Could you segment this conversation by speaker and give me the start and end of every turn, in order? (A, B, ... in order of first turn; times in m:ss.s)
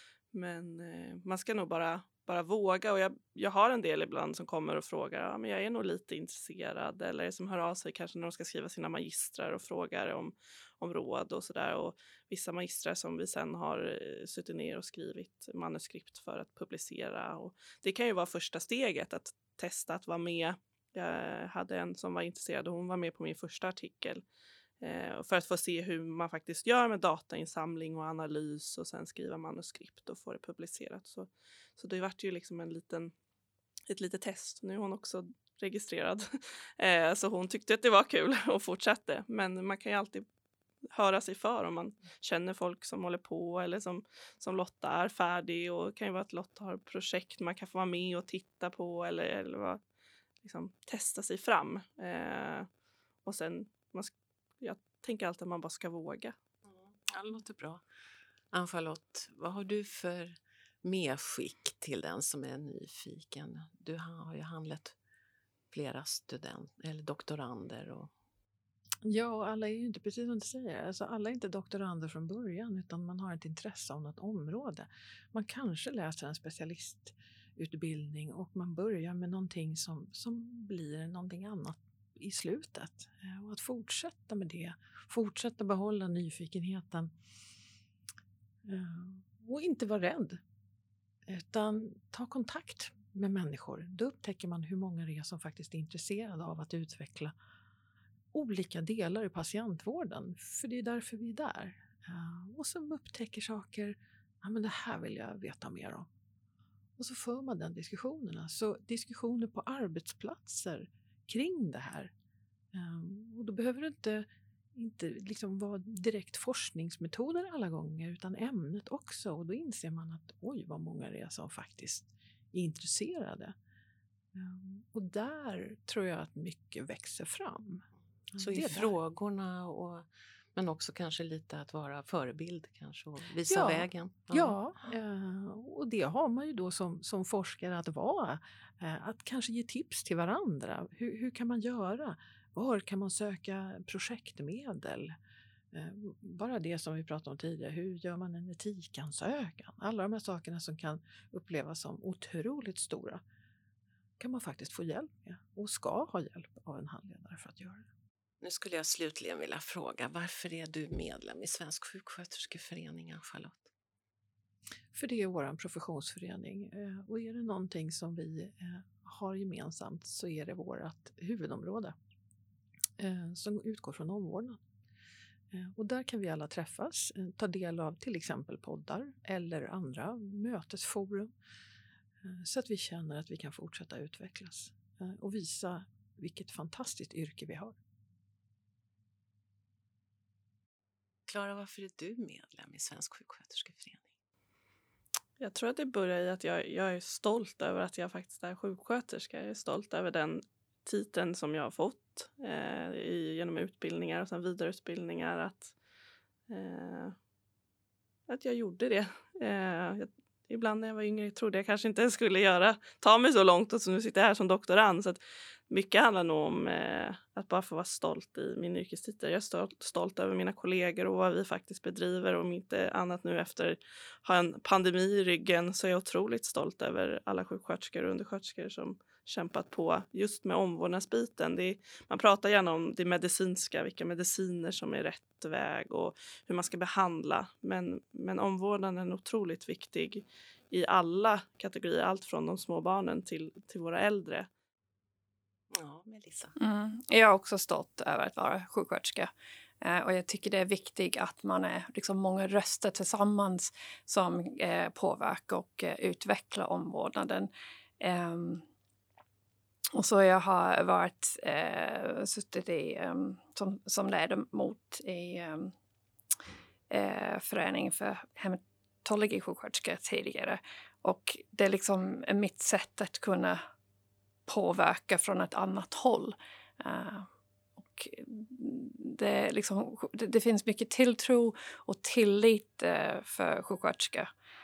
0:00.3-0:24.2 A
0:24.8-0:33.1 A
0:33.9-0:40.2 A
0:40.9-0:49.8 A
0:50.4-0:52.7 A
0:53.2-0:56.4 A
0:56.7-0:57.8 B
0:58.5-1:05.0 B
1:05.7-1:08.1 B
1:09.0-1:27.1 C
1:28.6-1:30.4 C
1:31.3-1:37.3 C
1:38.3-1:46.1 C
1:47.0-1:52.1 C
1:52.7-2:03.5 C
2:04.3-2:08.9 C
2:08.4-2:14.6 B
2:13.5-2:25.1 C
2:25.7-2:33.2 C
2:34.2-2:37.9 C
2:38.4-2:43.7 B
2:44.9-2:51.9 C
2:53.0-2:54.6 C
2:55.5-3:01.3 C
3:02.2-3:07.8 C
3:11.3-3:14.1 B
3:15.4-3:25.7 A
3:26.5-3:27.2 A
3:28.3-4:04.5 A
4:05.7-4:06.6 B
4:06.6-4:09.3 D
4:09.8-4:18.6 D
4:20.0-4:25.7 D
4:26.9-4:33.6 D
4:34.5-4:37.3 D
4:37.8-4:44.3 D